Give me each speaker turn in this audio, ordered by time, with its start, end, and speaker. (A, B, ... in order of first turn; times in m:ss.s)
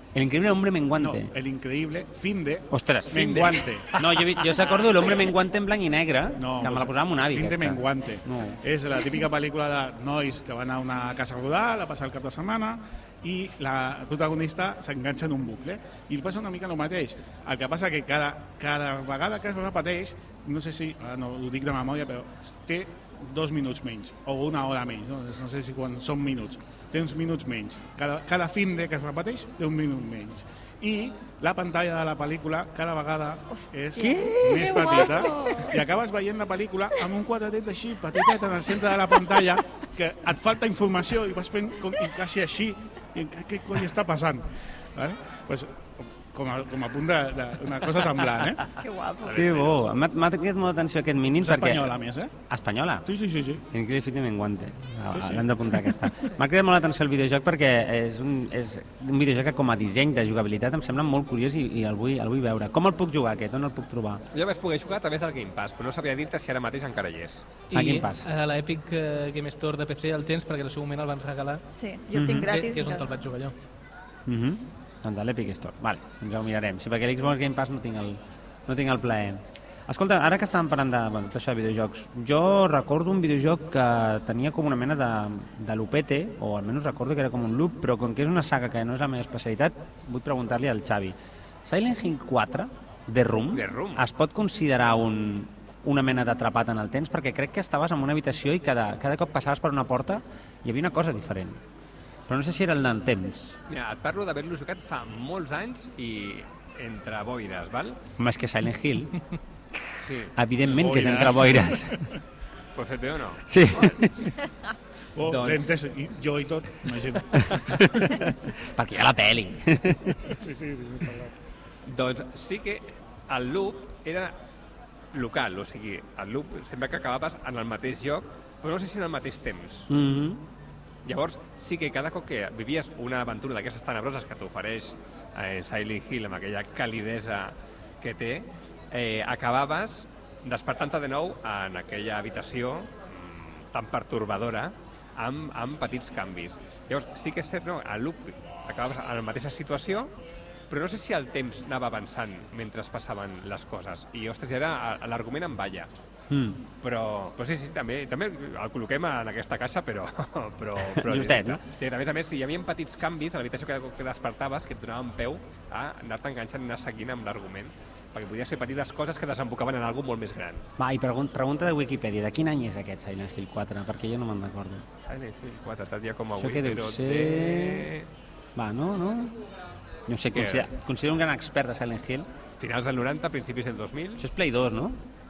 0:00.2-0:01.3 A
0:01.0-0:03.9 B
0:02.7-0:08.6 A
0:03.1-0:05.3 C
0:06.4-0:48.7 B
0:34.0-0:35.8 D
0:34.0-0:35.4 A
0:48.7-0:49.5 D
0:49.3-0:49.8 C
0:49.3-0:51.9 A
0:51.4-0:52.3 B
0:52.5-0:53.1 A
0:53.1-0:53.6 B
0:53.7-1:04.2 A
0:55.1-0:55.9 B
1:04.3-1:07.5 C
1:07.7-1:11.6 E
1:07.7-1:08.3 A
1:11.8-1:13.1 D
1:12.1-1:12.5 A
1:12.4-1:13.5 E
1:14.3-1:41.6 A
1:33.5-1:34.0 C
1:42.3-1:43.6 A
1:43.7-1:48.0 C
1:48.2-1:49.1 A
1:50.0-1:50.3 C
1:50.4-1:52.1 A
1:50.6-1:52.1 B
1:52.8-1:53.4 C
1:53.5-1:54.3 A
1:55.2-1:57.7 B
1:55.2-1:55.7 C
1:57.4-2:00.3 A
2:00.3-2:01.4 B
2:01.9-2:04.3 C
2:05.1-2:09.9 C
2:09.9-2:10.4 A
2:11.0-2:30.1 C
2:30.7-2:35.9 C
2:36.3-2:36.6 A
2:36.8-2:50.6 C
2:41.0-2:41.6 A
2:50.8-2:54.9 A
2:55.0-2:58.1 C
2:56.4-2:57.9 A
2:58.6-2:59.4 A
3:00.1-3:02.3 A
3:00.3-3:00.7 C
3:02.6-3:04.3 C
3:04.2-3:05.0 A